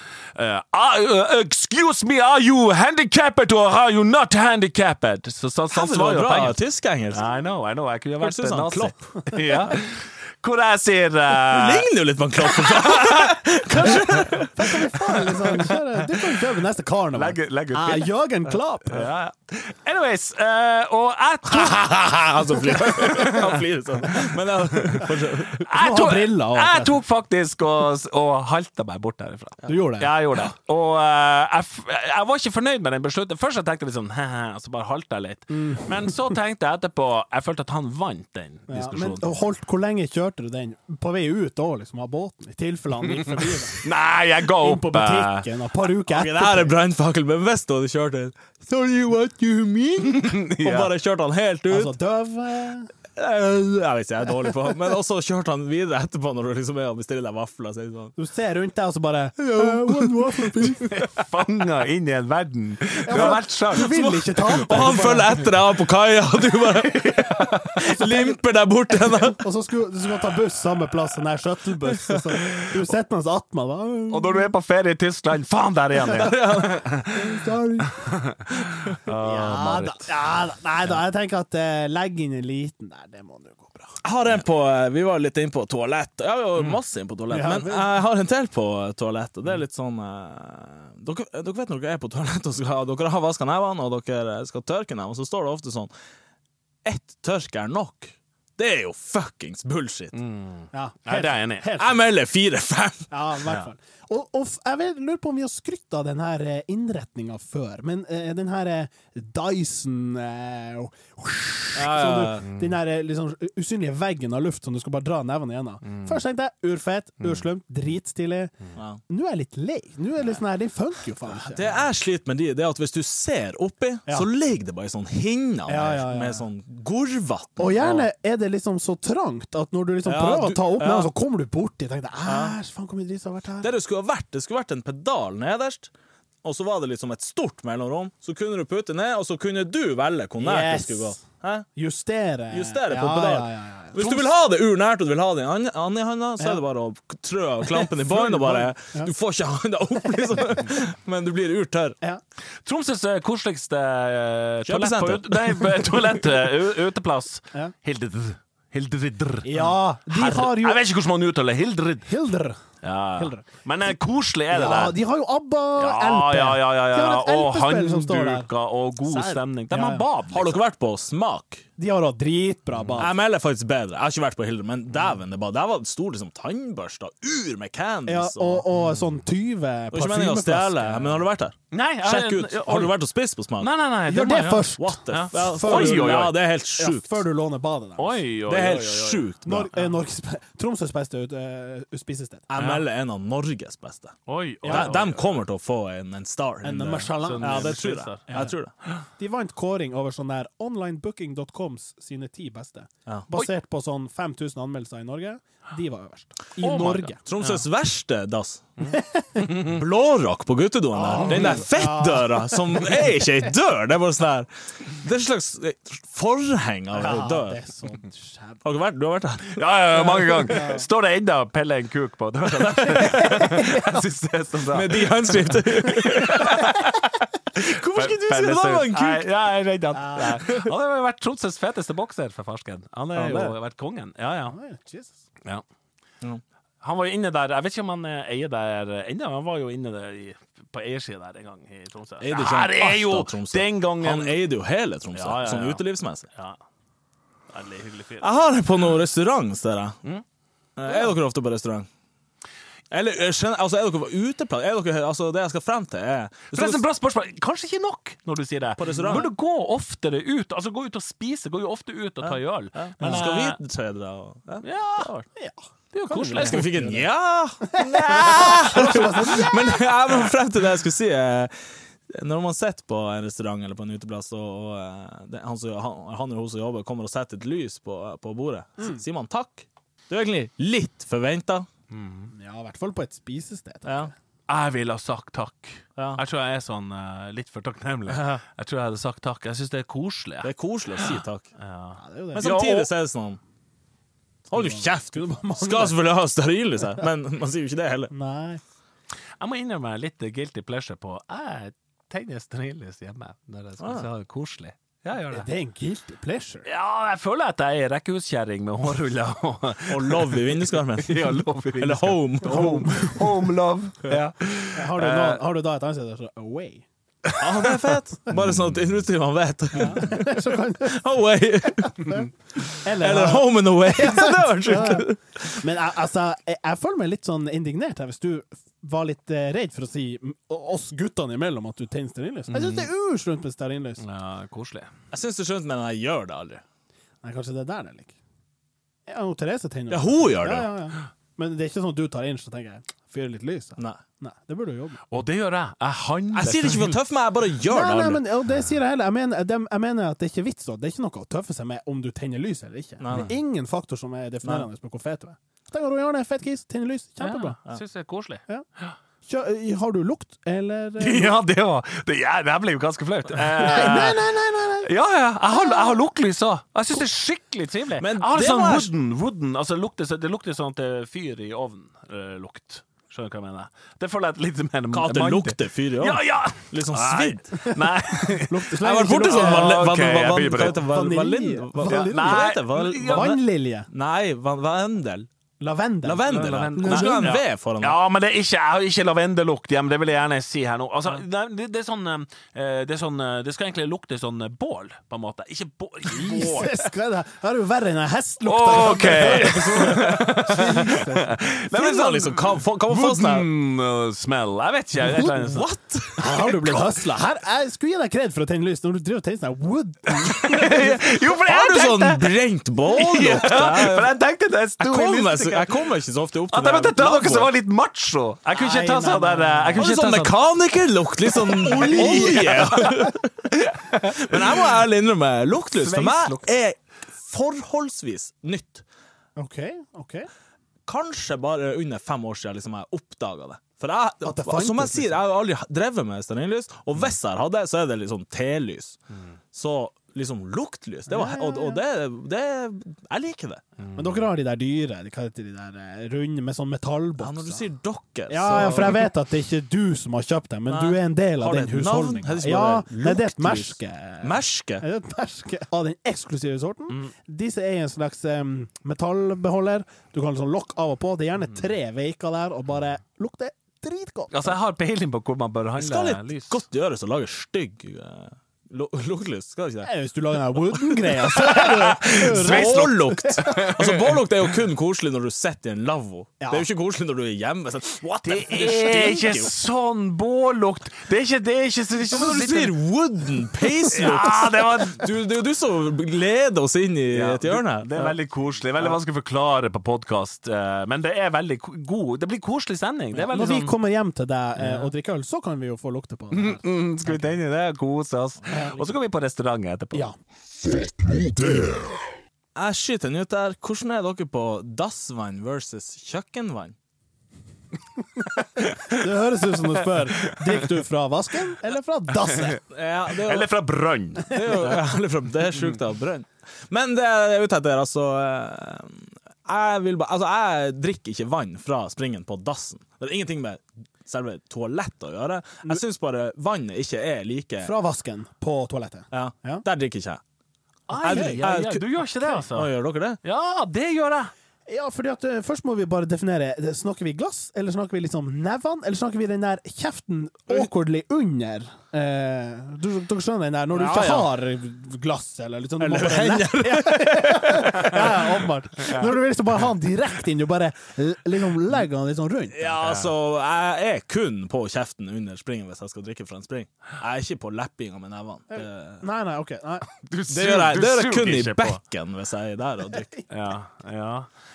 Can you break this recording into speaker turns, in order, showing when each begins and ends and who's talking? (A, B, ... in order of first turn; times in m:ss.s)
0:00.3-0:06.6 A
0:05.7-0:07.2 B
0:07.1-0:11.9 A
0:08.2-0:09.1 B
0:11.4-0:15.7 B
0:12.4-0:14.4 A
0:13.7-0:19.1 C
0:17.1-0:39.4 A
0:21.5-0:25.6 B
0:25.7-0:27.0 C
0:29.6-0:30.1 C
0:35.5-0:36.3 C
0:38.7-0:43.8 C
0:43.2-0:45.5 A
0:44.5-0:46.8 C
0:46.0-0:51.9 B
0:50.0-0:50.9 A
0:51.7-0:52.9 C
0:53.1-0:58.1 B
0:58.2-1:00.9 C
0:59.4-1:00.9 B
1:00.8-1:03.9 A
1:03.0-1:05.4 C
1:03.1-1:09.4 B
1:04.7-1:05.2 A
1:06.8-1:07.8 A
1:08.0-1:08.3 C
1:09.2-1:14.5 C
1:11.9-1:12.8 B
1:14.1-1:20.1 A
1:16.0-1:16.9 B
1:17.1-1:18.2 C
1:19.1-1:24.0 C
1:24.0-1:35.9 B
1:27.3-1:27.9 C
1:36.8-1:40.2 B
1:40.1-1:41.7 A
1:40.7-1:42.0 C
1:41.8-1:43.1 B
1:43.1-2:01.7 C
1:51.7-1:52.5 B
2:01.4-2:08.1 B
2:05.7-2:06.4 C
2:07.6-2:13.7 C
2:10.0-2:11.1 B
2:12.2-2:12.6 B
2:13.6-2:15.9 B
2:16.4-2:21.7 B
2:20.4-2:21.2 C
2:21.8-2:24.2 C
2:22.5-2:32.0 B
2:27.6-2:29.1 C
2:30.2-2:30.4 C
2:32.6-2:42.1 A
2:34.6-2:36.4 B
2:39.4-2:40.8 C
2:42.0-2:42.6 C
2:42.8-2:45.0 A
2:43.2-2:43.6 C
2:44.5-2:48.5 C
2:45.8-2:50.6 A
2:49.0-2:50.0 C
2:50.3-2:51.6 B
2:51.8-2:53.1 C
2:53.0-2:58.6 B
2:58.0-3:01.2 C
2:59.9-3:03.7 B
3:01.7-3:02.9 A
3:03.6-3:06.3 A
3:04.1-3:08.2 C
3:04.8-3:07.2 B
3:08.0-3:09.9 A
3:08.5-3:09.7 B
3:09.4-3:12.4 C
3:12.5-3:18.7 B
3:12.6-3:12.8 A
3:14.3-3:15.3 A
3:14.6-3:14.9 C
3:16.6-3:18.5 C
3:17.2-3:18.2 A
3:19.2-3:27.2 C
3:26.6-3:27.6 A
3:27.2-3:28.7 B
3:28.8-3:29.8 A
3:28.9-3:29.5 C
3:29.5-3:37.6 B
3:30.9-3:33.3 C
3:31.1-3:31.6 A
3:36.9-3:38.6 C
3:38.6-3:40.6 B
3:39.6-3:54.6 A
3:40.5-3:40.9 C
3:42.9-3:43.7 C
3:44.7-3:46.8 B
3:47.6-3:49.2 B
3:49.9-3:50.4 C
3:50.2-3:50.7 B
3:53.1-3:53.5 C
3:54.5-3:55.1 C
3:56.8-4:04.4 A
4:02.2-4:06.3 B
4:05.1-4:06.6 A
4:07.5-4:08.2 A
4:08.2-4:10.0 B
4:10.8-4:11.9 B
4:12.9-4:16.8 B
4:16.5-4:23.6 A
4:18.8-4:19.3 B
4:22.2-4:25.1 B
4:24.6-4:25.2 A
4:25.9-4:26.8 A
4:26.1-4:27.0 C
4:26.4-4:31.5 B
4:27.6-4:29.9 C
4:28.2-4:29.1 A
4:32.1-4:41.7 B
4:41.9-4:42.3 A
4:42.3-4:44.1 C
4:43.8-4:44.1 B
4:44.5-4:52.9 A
4:46.0-4:46.2 B
4:48.1-4:48.4 B
4:50.4-4:51.5 B
4:52.0-4:52.5 C
4:52.3-4:53.4 B
4:54.5-4:58.1 B
4:54.5-4:56.0 C
4:58.1-4:58.6 C
4:59.4-5:05.5 A
5:03.8-5:04.1 B
5:05.3-5:06.6 C
5:06.6-5:15.4 A
5:09.9-5:12.8 B
5:12.4-5:13.5 C
5:14.7-5:16.8 C
5:17.2-5:17.7 A
5:17.4-5:25.6 B
5:19.7-5:21.0 C
5:21.8-5:34.0 C
5:32.5-5:32.9 A
5:34.0-5:34.9 A
5:35.1-5:36.6 B
5:37.2-5:38.1 C
5:39.1-5:45.0 C
5:39.9-5:40.7 B
5:45.1-5:47.0 A
5:46.3-5:48.2 B
5:47.6-5:57.6 C
5:53.0-5:53.3 B
5:54.4-5:54.7 B
5:57.2-5:58.9 A
5:59.2-6:01.4 C
6:01.0-6:20.8 A
6:03.6-6:04.9 C
6:05.5-6:06.0 C
6:08.0-6:08.9 B
6:14.9-6:17.6 B
6:17.6-6:19.9 C
6:18.8-6:25.3 B
6:20.6-6:23.9 C
6:21.8-6:23.4 A
6:25.6-6:27.4 C
6:26.0-6:28.0 B
6:26.2-6:36.8 A
6:36.1-6:41.4 C
6:38.4-6:45.7 A
6:39.4-6:40.3 B
6:41.7-6:43.5 B
6:45.0-6:46.3 B
6:46.2-6:50.9 C
6:46.2-6:46.8 A
6:50.1-6:52.3 A
6:50.7-6:54.1 B
6:52.9-6:55.9 A
6:54.8-6:57.5 B
6:56.5-7:00.4 A
6:58.5-6:59.8 C
6:59.8-7:08.8 B
7:01.3-7:04.7 A
7:01.7-7:02.5 C
7:05.7-7:06.5 A
7:09.4-7:10.3 C
7:10.8-7:19.0 B
7:14.2-7:15.2 C
7:19.5-7:23.6 B
7:21.1-7:21.8 C
7:23.8-7:24.2 A
7:24.0-7:27.6 C
7:27.2-7:29.1 B
7:28.3-7:44.5 C
7:30.7-7:34.8 B
7:44.3-7:46.6 A
7:45.8-7:49.9 B
7:49.8-7:53.8 C
7:51.3-7:54.0 A
7:52.1-7:59.5 B
7:56.4-7:56.7 C
7:58.2-8:02.8 A
8:02.1-8:08.1 B
8:03.9-8:05.0 A
8:07.1-8:13.7 A
8:13.1-8:17.3 C
8:14.6-8:14.9 A
8:16.3-8:20.1 A
8:18.4-8:19.0 B
8:21.1-8:21.7 C
8:22.5-8:26.8 B
8:28.3-8:30.6 A
8:28.6-8:32.6 C
8:32.2-8:34.8 A
8:32.6-8:33.5 B
8:34.2-8:47.7 B
8:47.6-8:49.6 C
8:49.1-8:50.2 B
8:50.9-8:52.7 A
8:51.0-8:51.8 B
8:51.0-8:51.4 C
8:52.5-8:53.2 B
8:53.2-8:54.3 A
8:54.7-9:12.8 C
9:03.7-9:04.2 A
9:03.8-9:04.3 B
9:05.8-9:08.3 B
9:12.5-9:19.0 B
9:12.8-9:13.1 A
9:18.5-9:19.9 C
9:19.9-9:21.8 A
9:20.3-9:23.1 B
9:23.3-9:24.3 A